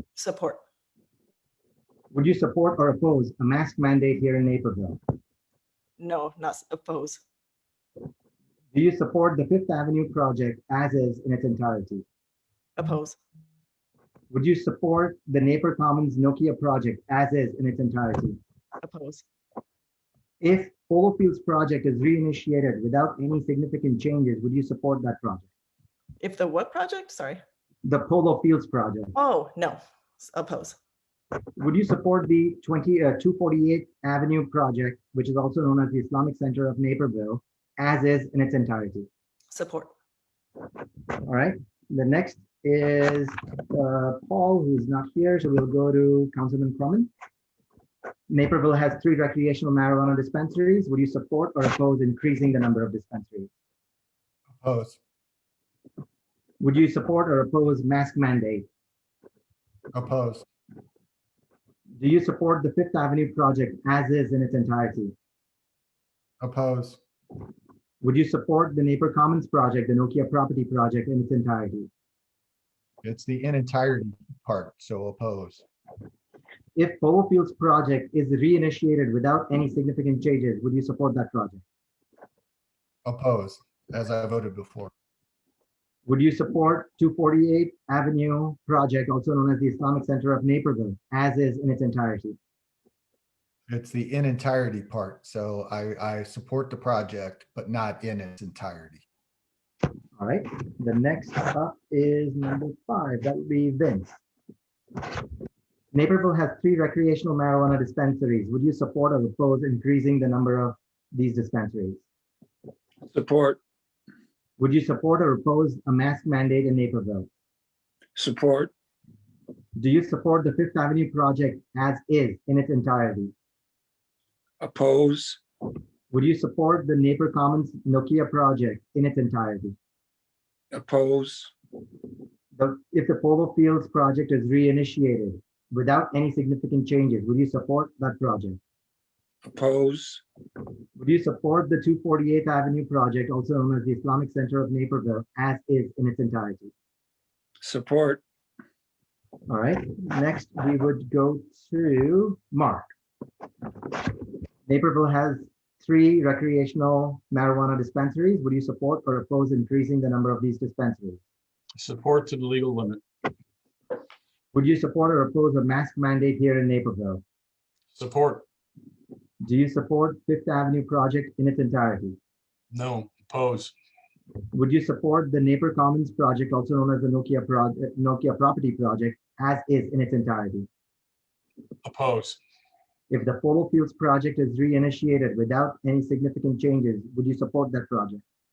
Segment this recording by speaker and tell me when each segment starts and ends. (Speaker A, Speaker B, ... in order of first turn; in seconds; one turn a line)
Speaker A: 0.1-0.6
Speaker B: 2.1-5.0
Speaker A: 6.0-7.2
Speaker B: 8.7-12.0
Speaker A: 12.8-13.2
Speaker B: 14.3-18.4
Speaker A: 18.8-19.2
Speaker B: 20.4-25.5
Speaker A: 26.2-27.4
Speaker B: 27.8-29.1
Speaker A: 29.1-30.8
Speaker B: 31.6-39.1
Speaker A: 39.5-39.9
Speaker B: 41.1-47.1
Speaker B: 48.3-53.5
Speaker C: 54.6-55.0
Speaker B: 56.6-58.6
Speaker C: 59.9-60.5
Speaker B: 62.0-65.1
Speaker C: 66.4-67.0
Speaker B: 68.0-71.9
Speaker C: 73.0-75.6
Speaker B: 76.8-81.6
Speaker C: 83.0-84.9
Speaker B: 86.0-92.4
Speaker C: 93.7-99.0
Speaker B: 100.2-104.1
Speaker B: 105.9-112.0
Speaker D: 113.1-113.6
Speaker B: 114.6-117.3
Speaker D: 118.2-118.7
Speaker B: 119.8-123.3
Speaker D: 124.6-125.4
Speaker B: 126.1-129.7
Speaker D: 130.7-131.5
Speaker B: 132.6-138.6
Speaker D: 139.4-140.2
Speaker B: 141.0-146.7
Speaker D: 147.6-148.2
Speaker B: 149.5-152.9
Speaker B: 154.7-161.2
Speaker E: 161.8-163.0
Speaker B: 164.5-167.2
Speaker E: 167.9-168.4
Speaker B: 169.4-172.2
Speaker E: 172.7-173.7
Speaker B: 174.5-180.7
Speaker E: 181.8-182.4
Speaker B: 183.1-188.2